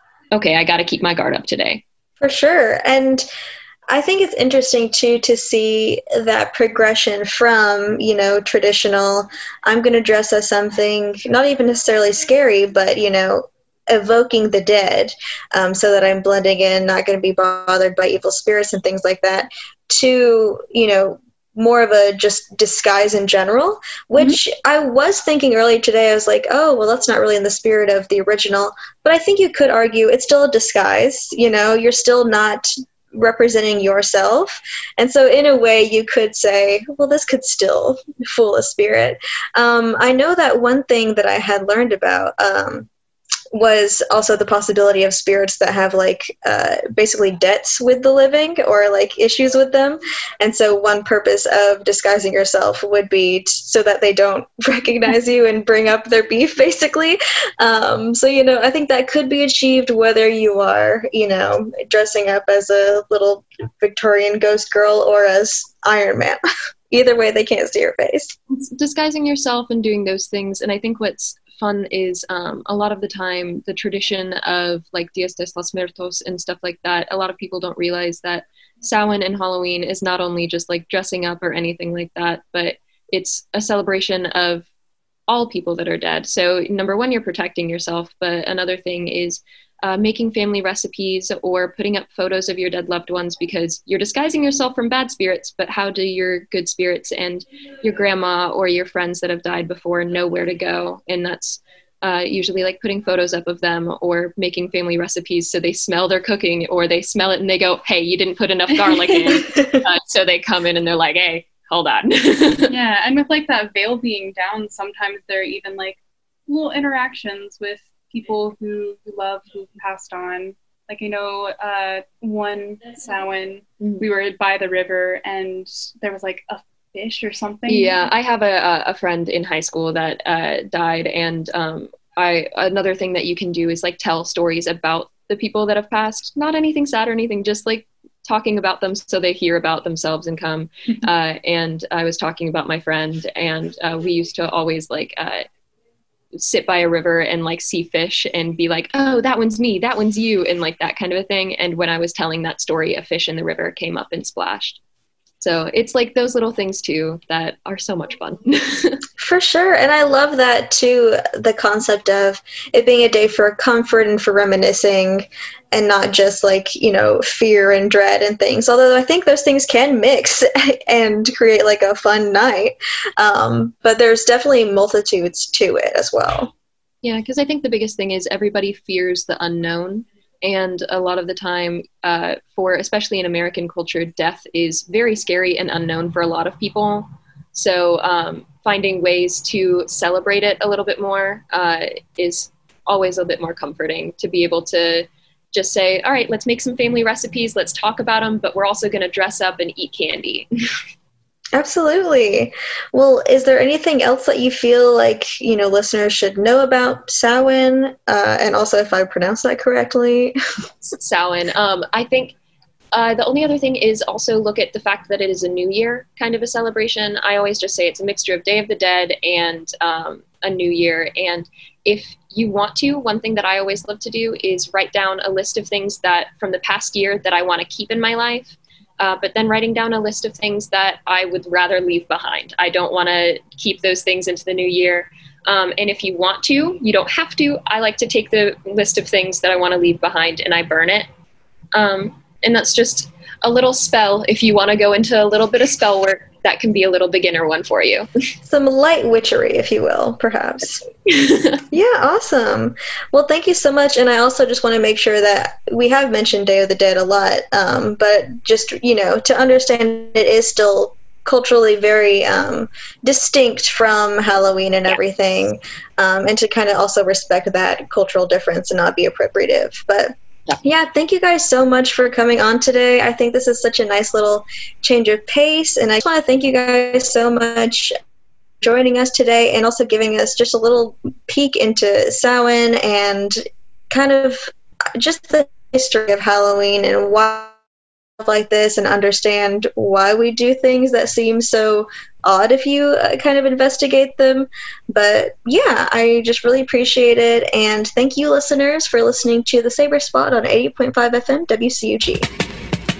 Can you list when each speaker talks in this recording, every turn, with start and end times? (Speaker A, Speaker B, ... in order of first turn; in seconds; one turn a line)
Speaker A: 0.3-1.8
Speaker B: 2.2-3.3
Speaker B: 3.9-42.9
Speaker B: 43.5-66.4
Speaker B: 66.9-68.3
Speaker A: 68.5-84.7
Speaker A: 85.3-112.8
Speaker B: 109.4-109.8
Speaker C: 112.7-128.0
Speaker A: 123.8-124.1
Speaker A: 127.7-145.4
Speaker A: 146.3-154.8
Speaker A: 155.4-159.0
Speaker B: 159.2-176.5
Speaker A: 177.0-200.5
Speaker B: 201.6-210.3
Speaker A: 210.8-212.3
Speaker A: 212.9-241.1
Speaker A: 241.7-248.1
Speaker B: 248.5-250.8
Speaker A: 251.1-251.6
Speaker B: 251.7-270.1
Speaker B: 270.6-277.9
Speaker B: 278.6-283.4
Speaker B: 283.9-287.5
Speaker B: 288.2-302.3